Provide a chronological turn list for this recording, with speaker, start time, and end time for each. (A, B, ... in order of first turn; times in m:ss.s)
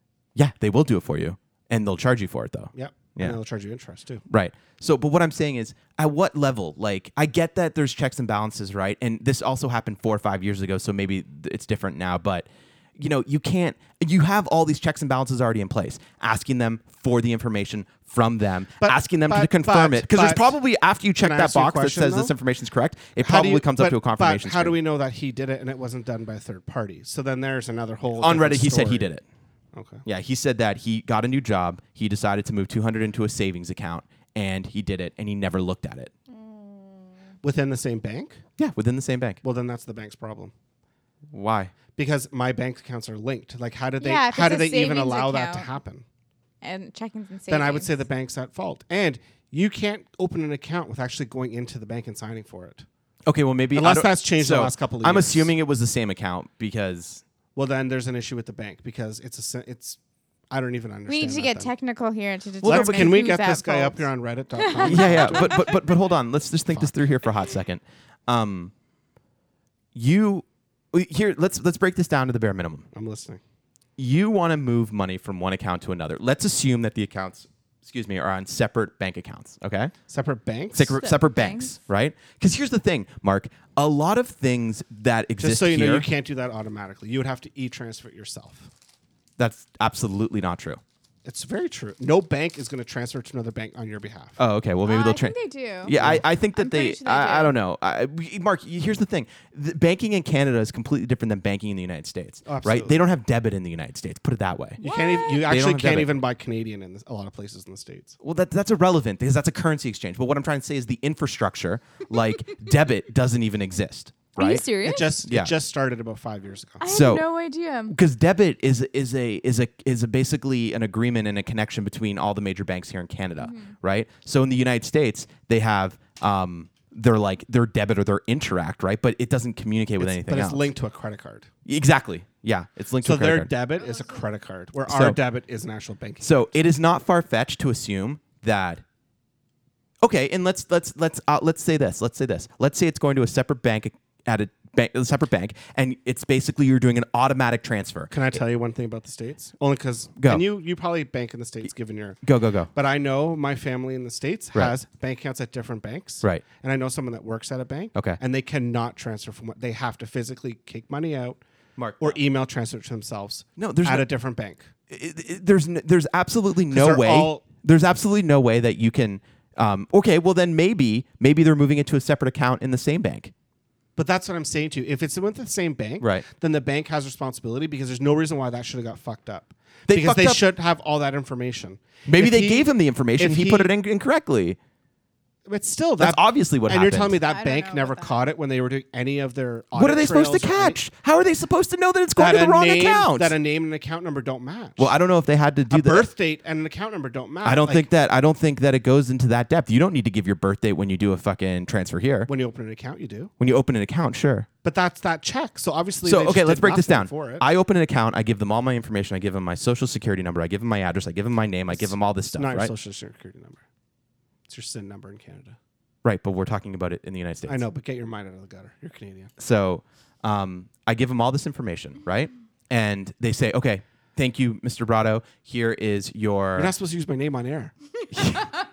0:00.4-0:03.4 A
0:02.7-0:04.2 B
0:04.3-0:24.8 A
0:18.8-0:20.5 B
0:21.2-0:22.3 B
0:23.2-0:29.1 B
0:28.1-0:29.2 A
0:29.7-0:30.0 B
0:30.1-0:36.1 A
0:36.3-0:37.1 C
0:37.4-0:38.4 B
0:38.6-0:39.4 A
0:39.4-0:40.5 B
0:41.3-0:41.7 A
0:41.9-0:46.0 B
0:44.0-0:45.7 C
0:46.6-0:47.9 C
0:47.5-0:52.8 B
0:53.3-0:57.2 A
0:53.7-0:55.5 B
0:57.6-1:00.0 B
1:00.5-1:01.7 B
1:01.1-1:05.6 C
1:02.6-1:03.2 A
1:02.6-1:05.8 B
1:04.8-1:08.7 A
1:10.0-1:12.9 A
1:12.9-1:13.4 B
1:14.0-1:19.9 A
1:20.1-1:21.0 B
1:20.7-1:26.1 A
1:20.9-1:21.7 C
1:25.4-1:28.7 B
1:29.4-1:30.8 A
1:31.2-1:34.4 B
1:34.4-1:44.8 A
1:34.8-1:35.9 C
1:35.9-1:36.2 B
1:36.5-1:37.6 C
1:42.4-1:43.0 B
1:44.8-1:48.2 B
1:44.8-1:45.5 C
1:45.4-1:46.2 A
1:48.2-1:54.7 A
1:54.4-1:55.1 C
1:54.8-1:56.9 B
1:55.2-1:55.5 A
1:56.8-1:58.0 C
1:56.9-1:57.2 A
1:57.9-2:10.7 A
2:03.4-2:03.7 C
2:10.0-2:11.5 B
2:11.7-2:13.5 A
2:13.0-2:16.4 B
2:14.9-2:15.2 A
2:16.2-2:18.8 A
2:20.0-2:28.1 A
2:28.1-2:32.2 B
2:30.2-2:30.4 A
2:32.2-2:32.7 A
2:32.7-2:41.4 B
2:41.8-2:42.2 A
2:42.0-2:44.7 B
2:43.6-2:44.1 A
2:44.9-2:53.3 A
2:46.7-2:47.5 B
2:54.0-3:03.7 B
2:56.0-2:56.3 A
2:59.9-3:00.4 A
3:02.1-3:04.6 A
3:05.5-3:10.8 B
3:06.0-3:07.2 A
3:07.2-3:08.3 C
3:09.7-3:13.4 A
3:12.2-3:15.0 B
3:14.8-3:16.1 A
3:15.7-3:17.9 B
3:17.4-3:22.3 A
3:22.3-3:23.3 B
3:23.4-3:24.5 A
3:24.6-3:27.4 B
3:26.0-3:32.7 A
3:31.7-3:33.6 B
3:34.5-3:35.6 B
3:36.0-3:37.6 A
3:37.5-3:39.3 B
3:39.4-3:46.7 A
3:46.6-3:47.7 B
3:48.1-3:48.5 A
3:48.2-3:48.6 C